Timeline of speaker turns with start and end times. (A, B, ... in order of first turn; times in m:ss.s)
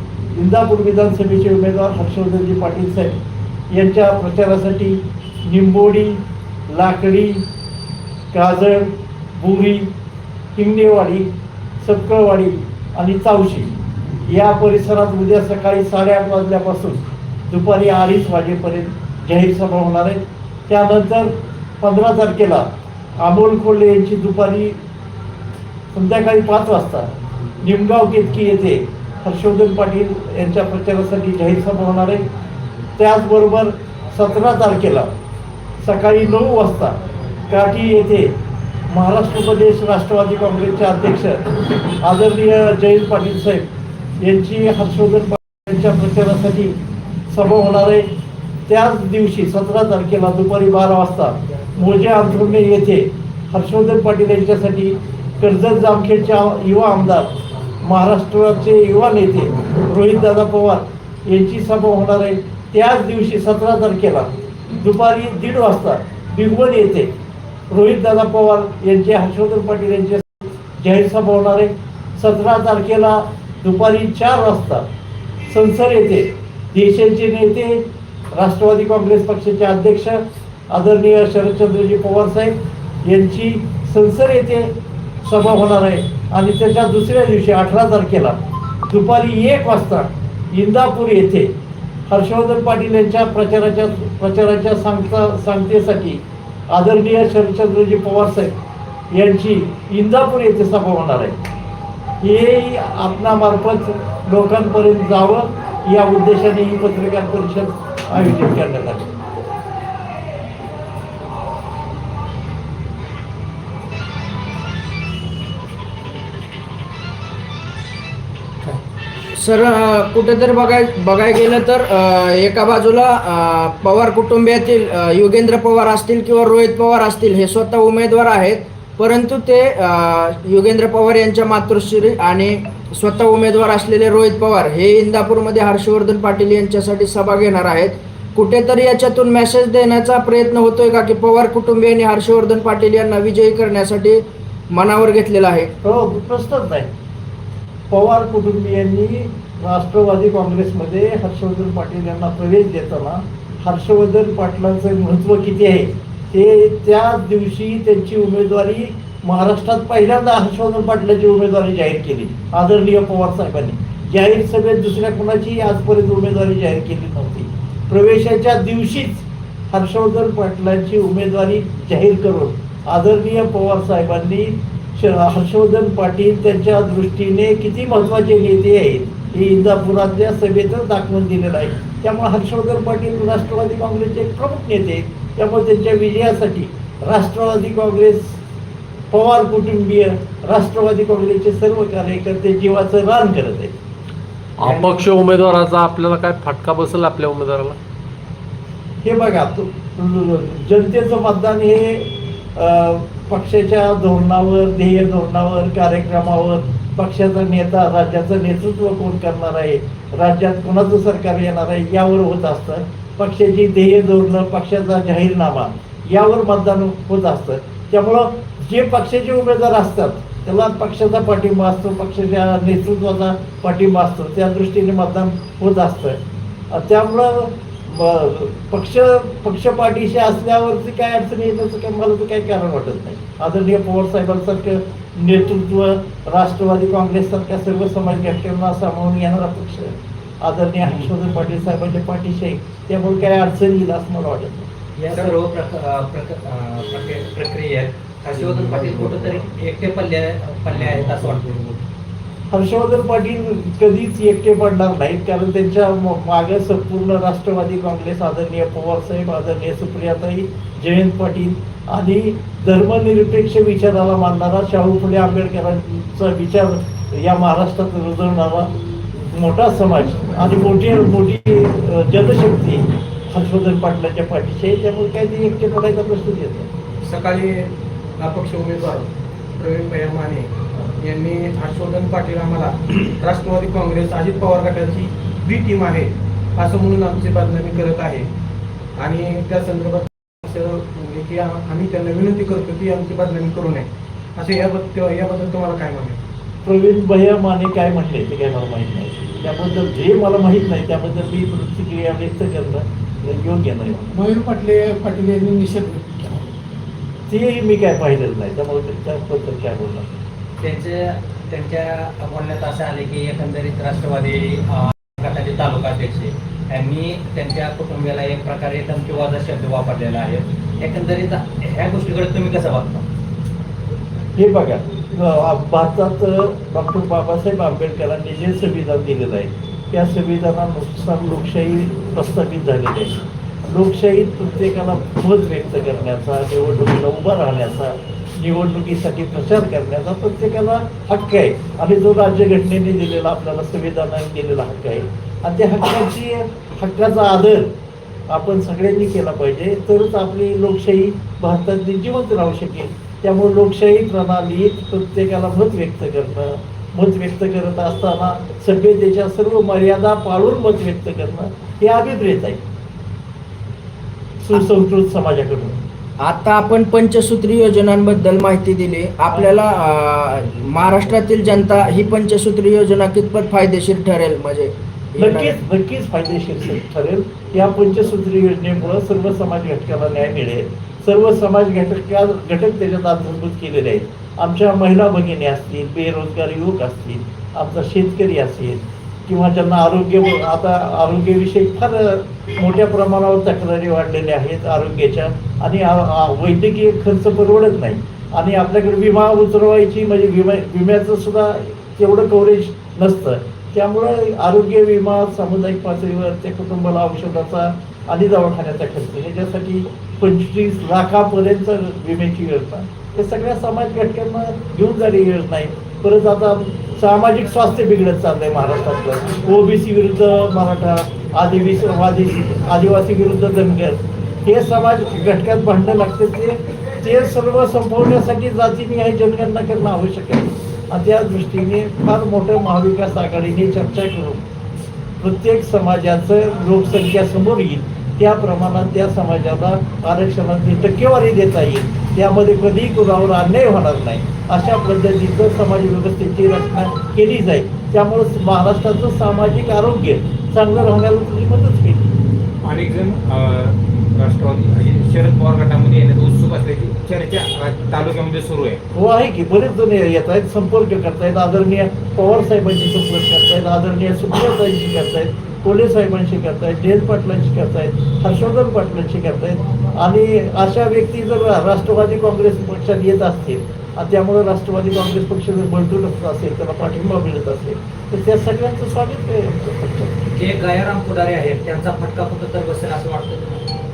0:00.3-0:03.2 A
0:03.7-0:07.4 A
0:08.3-0:09.9 A
0:10.6-0:24.8 A
0:25.9-0:27.1 A
0:27.6-0:32.2 A
0:33.0-0:35.1 A
0:35.8-0:37.0 A
0:37.5-0:38.4 A
0:38.9-0:41.5 A
0:42.0-0:46.8 A
0:47.3-0:48.1 A
0:48.7-1:07.1 A
1:07.7-1:14.8 A
1:15.5-1:24.7 A
1:25.2-1:31.5 A
1:32.1-1:38.6 A
1:39.1-1:41.4 A
1:42.2-1:49.1 A
1:59.3-2:25.7 B
2:25.8-2:26.9 A
2:27.9-3:08.4 A
3:09.1-3:13.7 A
3:14.6-3:17.8 C
3:14.6-3:15.0 D
3:19.0-3:46.2 A
3:46.7-4:04.7 A
4:05.0-4:11.6 D
4:08.4-4:09.3 E
4:12.5-4:28.7 A
4:29.3-4:36.7 A
4:37.0-4:48.3 F
4:49.0-4:56.2 F
4:56.6-5:04.2 A
5:04.1-5:06.4 G
5:07.3-5:10.1 A
5:10.6-5:23.1 D
5:24.4-5:47.7 A
5:48.3-6:02.6 A
6:04.4-6:05.8 A
6:06.2-6:15.6 B
6:15.2-7:14.4 A
7:15.2-7:32.1 A
7:32.6-7:38.8 E
7:38.9-8:00.2 A
8:00.3-8:03.4 D